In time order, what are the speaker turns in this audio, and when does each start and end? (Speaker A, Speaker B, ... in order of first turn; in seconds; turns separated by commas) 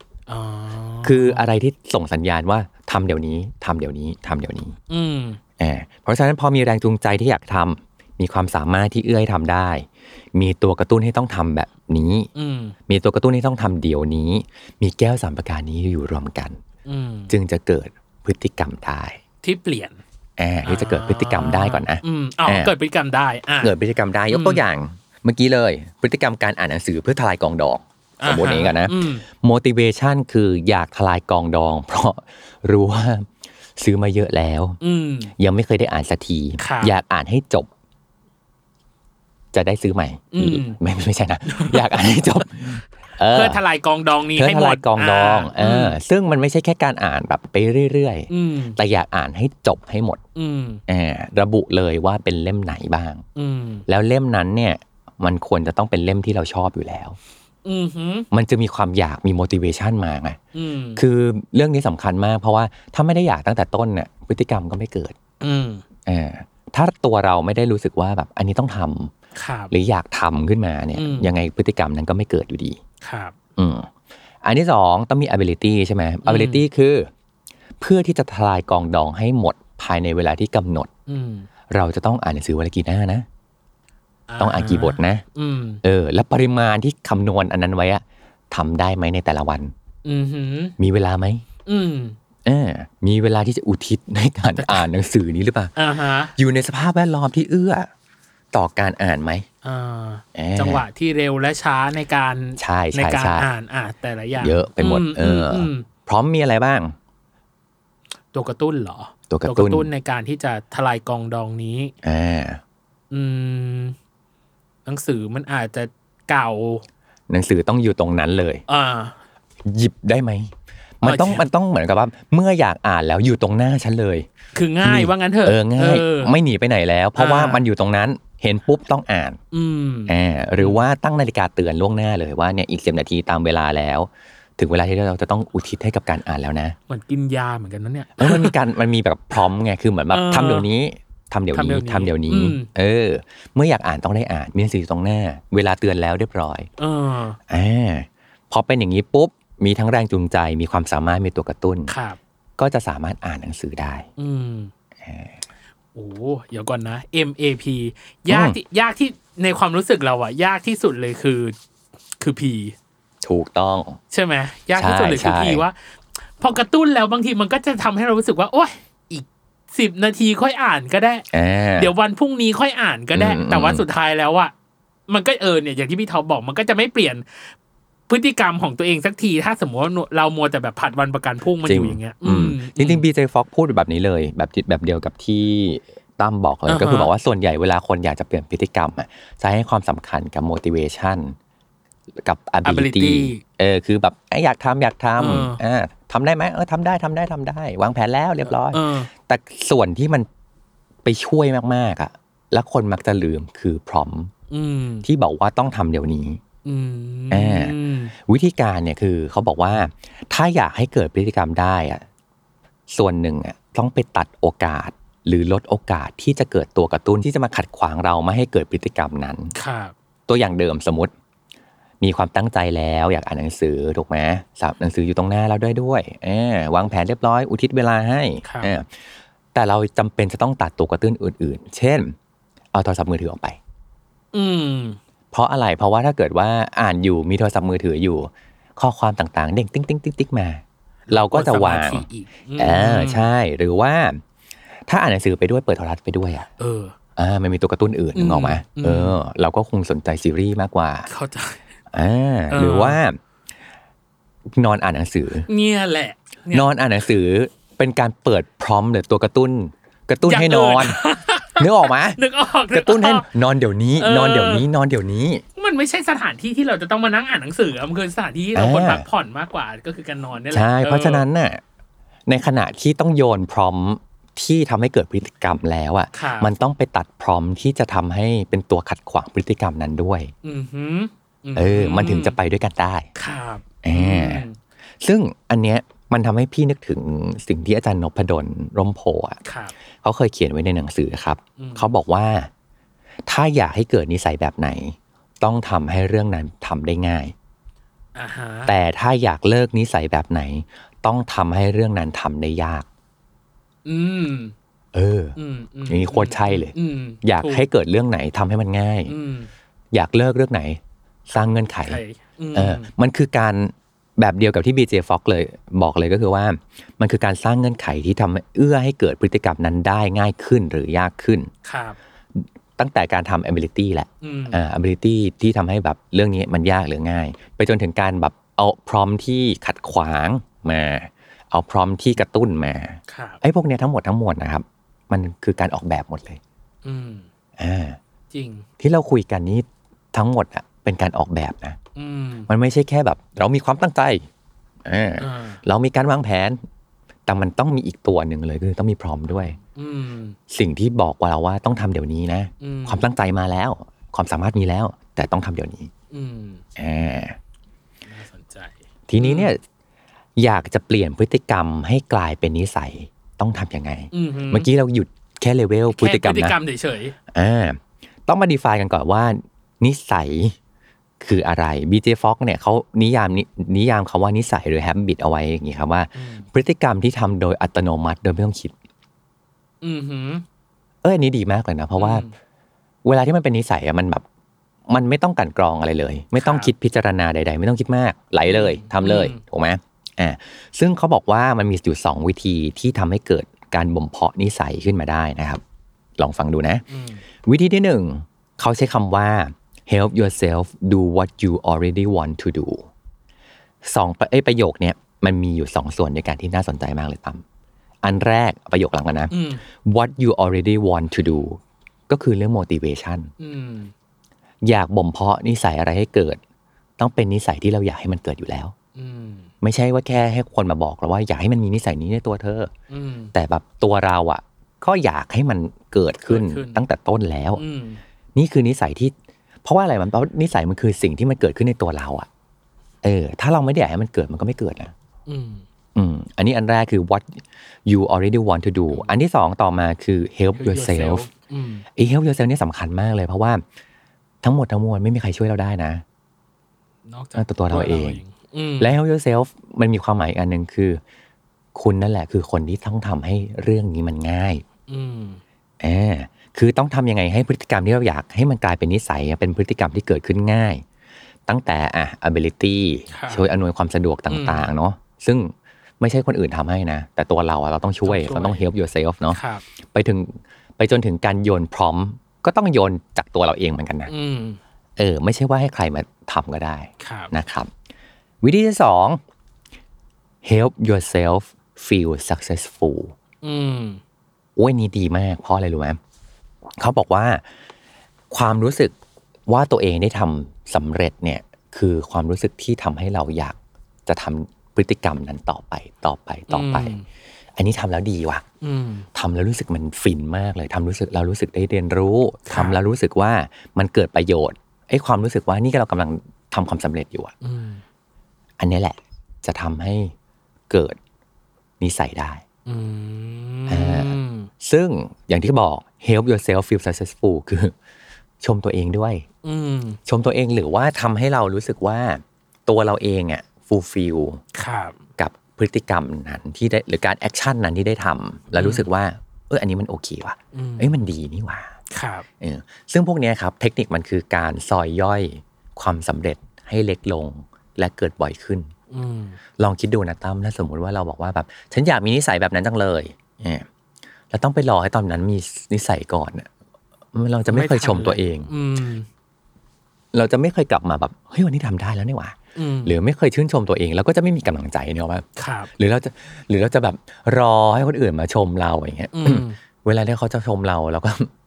Speaker A: 0.3-1.4, Speaker B: 1.0-4.7, Speaker A: 4.9-5.4, Speaker B: 5.6-12.3, Speaker A: 12.3-12.7, Speaker B: 12.9-16.6, Speaker A: 16.8-17.3, Speaker B: 17.3-19.2, Speaker A: 19.4-20.0, Speaker B: 20.4-22.7, Speaker A: 20.6-23.7, Speaker B: 23.6-34.8, Speaker A: 24.3-24.6, Speaker A: 28.2-29.2, Speaker A: 34.8-35.3, Speaker B: 35.4-37.7, Speaker A: 36.6-36.9, Speaker B: 39.5-43.6, Speaker A: 40.3-40.8, Speaker A: 41.5-42.5, Speaker A: 43.3-46.0, Speaker B: 44.3-50.2, Speaker A: 48.3-48.8, Speaker A: 50.3-50.8, Speaker B: 50.9-53.2, Speaker A: 53.4-53.8, Speaker B: 53.9-57.2, Speaker A: 57.6-58.3, Speaker B: 58.3-60.4, Speaker A: 60.5-61.0, Speaker B: 61.0-65.1, Speaker A: 65.4-65.8, Speaker B: 66.0-69.1, Speaker A: 69.3-69.7, Speaker B: 69.7-72.8, Speaker A: 71.0-71.3, Speaker A: 73.0-73.3, Speaker B: 73.6-73.9, Speaker B: 74.4-77.1, Speaker A: 76.2-76.6, Speaker B: 77.8-80.9, Speaker A: 81.1-81.5, Speaker B: 81.7-83.2, Speaker A: 84.3-85.8, Speaker B: 84.4-85.2, Speaker B: 85.8-89.7, Speaker A: 90.0-90.8, Speaker B: 90.8-91.4, Speaker A: 91.7-92.2, Speaker B: 92.4-95.7, Speaker A: 94.5-94.8, Speaker A: 95.8-96.3, Speaker B: 96.3-97.9, Speaker B: 98.5-99.5, Speaker A: 99.6-105.9, Speaker B: 100.3-100.8, Speaker B: 102.6-103.5, Speaker B: 104.4-106.9, Speaker A: 108.3-111.9, Speaker B: 109.3-109.9, Speaker B: 112.0-112.6, Speaker A: 113.1-114.0, Speaker A: 114.8-116.8, Speaker B: 117.3-118.6, Speaker A: 118.7-119.2, Speaker B: 119.6-124.3, Speaker A: 121.0-121.5, Speaker A: 124.5-126.3, Speaker B: 124.8-129.4, Speaker A: 127.1-127.6, Speaker A: 129.5-130.8, Speaker B: 130.1-136.8, Speaker A: 136.9-138.5, Speaker B: 138.2-146.7, Speaker A: 140.1-140.7, Speaker A: 141.5-142.7, Speaker A: 146.8-147.4, Speaker B: 147.5-151.9, Speaker A: 151.9-152.2, Speaker B: 152.6-154.1, Speaker A: 154.2-154.7, Speaker B: 155.0-155.4, Speaker A: 155.9-161.6, Speaker B: 158.3-158.6, Speaker A: 162.2-162.7, Speaker B: 163.2-164.0, Speaker A: 164.1-171.2, Speaker B: 164.8-165.6, Speaker B: 171.3-171.9, Speaker A: 171.8-174.5, Speaker B: 173.1-173.8, Speaker A: 175.1-177.5, Speaker A: 178.1-183.0, Speaker B: 181.6-191.3, Speaker A: 186.7-187.1, Speaker B: 192.2-200.3, Speaker A: 192.6-193.4, Speaker A: 195.2-195.6, Speaker A: 198.4-199.1, Speaker B: 201.0-204.3, Speaker A: 204.5-205.1, Speaker B: 205.0-206.4, Speaker A: 206.6-208.1, Speaker B: 207.3-212.0, Speaker B: 212.9-219.5, Speaker A: 219.5-219.9, Speaker B: 220.3-221.1, Speaker B: 222.0-228.9, Speaker A: 228.4-228.7, Speaker B: 229.5-232.1, Speaker B: 232.7-233.6, Speaker A: 234.3-235.0, Speaker B: 235.3-242.0, Speaker A: 241.1-243.3, Speaker B: 242.6-244.2, Speaker B: 244.9-246.5, Speaker A: 246.6-246.9, Speaker B: 247.2-251.1, Speaker A: 248.1-249.2, Speaker A: 251.1-251.6, Speaker B: 251.9-253.2, Speaker A: 252.5-253.0, Speaker B: 254.5-255.5, Speaker A: 255.5-256.7, Speaker B: 256.5-261.0, Speaker A: 260.2-263.3, Speaker B: 261.6-262.2, Speaker B: 262.7-265.4, Speaker A: 264.0-264.6, Speaker A: 265.6-271.2, Speaker B: 268.5-269.0, Speaker B: 270.5-271.6, Speaker B: 272.3-280.3, Speaker A: 276.1-276.5, Speaker A: 280.4-282.4, Speaker B: 281.6-283.1, Speaker A: 283.1-284.6, Speaker B: 283.8-284.4, Speaker B: 285.0-289.4, Speaker A: 289.4-289.7, Speaker B: 290.0-292.5, Speaker A: 291.6-291.9, Speaker B: 293.2-297.3, Speaker A: 298.1-298.7, Speaker B: 298.7-302.9, Speaker A: 303.8-304.5, Speaker B: 304.9-305.4, Speaker A: 305.4-307.7, Speaker B: 305.9-309.1, Speaker A: 309.1-309.5, Speaker B: 309.9-312.0, Speaker A: 311.8-312.9, Speaker B: 312.5-321.5, Speaker A: 321.6-322.0, Speaker B: 322.3-336.4, Speaker A: 324.2-324.6, Speaker A: 333.1-333.4, Speaker A: 336.8-337.3, Speaker B: 337.6-338.0, Speaker A: 338.3-338.6, Speaker B: 338.8-341.8, Speaker A: 341.9-342.5, Speaker B: 342.5-344.2, Speaker B: 344.8-346.6, Speaker A: 345.2-345.6, Speaker B: 347.2-349.6, Speaker A: 349.3-350.4, Speaker B: 350.5-355.9, Speaker A: 352.6-353.0, Speaker A: 356.1-356.6, Speaker B: 356.8-357.4, Speaker A: 358.1-359.5, Speaker B: 359.1-359.6, Speaker B: 360.4-366.6, Speaker A: 364.1-364.7, Speaker A: 365.9-367.1, Speaker B: 367.3-370.6, Speaker B: 371.2-378.7, Speaker A: 376.1-376.4, Speaker A: 379.8-380.4, Speaker B: 381.0-382.2, Speaker A: 382.0-382.3, Speaker B: 383.0-384.2, Speaker B: 384.9-395.6, Speaker A: 386.4-386.7, Speaker A: 388.4-389.4, Speaker B: 396.2-396.8, Speaker A: 396.9-397.2, Speaker B: 397.4-402.9, Speaker B: 403.8-407.4, Speaker B: 408.0-413.3, Speaker A: 409.3-409.6, Speaker A: 413.4-413.9, Speaker B: 414.6-416.4, Speaker B: 417.0-418.7, Speaker A: 418.9-419.5, Speaker B: 419.6-422.7, Speaker A: 422.9-423.3, Speaker B: 423.3-427.6, Speaker A: 426.3-426.8, Speaker A: 427.6-428.0, Speaker B: 428.3-429.1, Speaker B: 429.6-432.3, Speaker B: 433.0-434.9, Speaker A: 435.3-435.6, Speaker B: 435.9-441.3, Speaker A: 438.9-439.2, Speaker A: 440.5-441.9, Speaker B: 441.9-443.6, Speaker B: 444.4-446.0, Speaker A: 447.1-448.9, Speaker B: 447.4-448.2, Speaker B: 448.8-451.0, Speaker B: 451.7-454.6, Speaker A: 454.9-455.4, Speaker B: 455.8-460.8, Speaker B: 461.5-469.4, Speaker A: 463.1-463.4, Speaker A: 464.3-464.7, Speaker A: 468.0-468.6, Speaker A: 469.3-469.6, Speaker B: 469.9-474.1, Speaker A: 474.1-474.6, Speaker B: 475.0-477.7, Speaker A: 477.0-477.3, Speaker B: 478.4-479.2, Speaker B: 480.4-483.1, Speaker A: 483.4-484.0, Speaker B: 484.6-486.0, Speaker B: 486.8-487.4, Speaker B: 488.3-488.9, Speaker B: 489.5-496.9, Speaker A: 496.5-497.0, Speaker B: 497.6-498.4, Speaker A: 498.6-499.1, Speaker B: 499.1-507.3, Speaker A: 502.5-502.8, Speaker A: 507.4-507.8, Speaker B: 508.6-510.1, Speaker B: 510.7-511.0, Speaker B: 511.8-512.4, Speaker A: 512.6-514.5, Speaker B: 513.7-517.7, Speaker B: 518.4-519.2, Speaker A: 519.4-520.0, Speaker B: 520.0-524.4, Speaker A: 524.5-525.0, Speaker B: 525.2-531.7, Speaker A: 528.5-528.9, Speaker A: 530.5-530.9, Speaker A: 531.9-532.2, Speaker B: 532.4-538.7, Speaker A: 538.9-539.4, Speaker B: 539.6-543.6, Speaker B: 544.3-546.5, Speaker B: 547.1-548.5, Speaker A: 547.5-549.1, Speaker B: 550.1-561.3, Speaker A: 552.5-552.9, Speaker A: 555.4-555.7, Speaker A: 559.1-559.6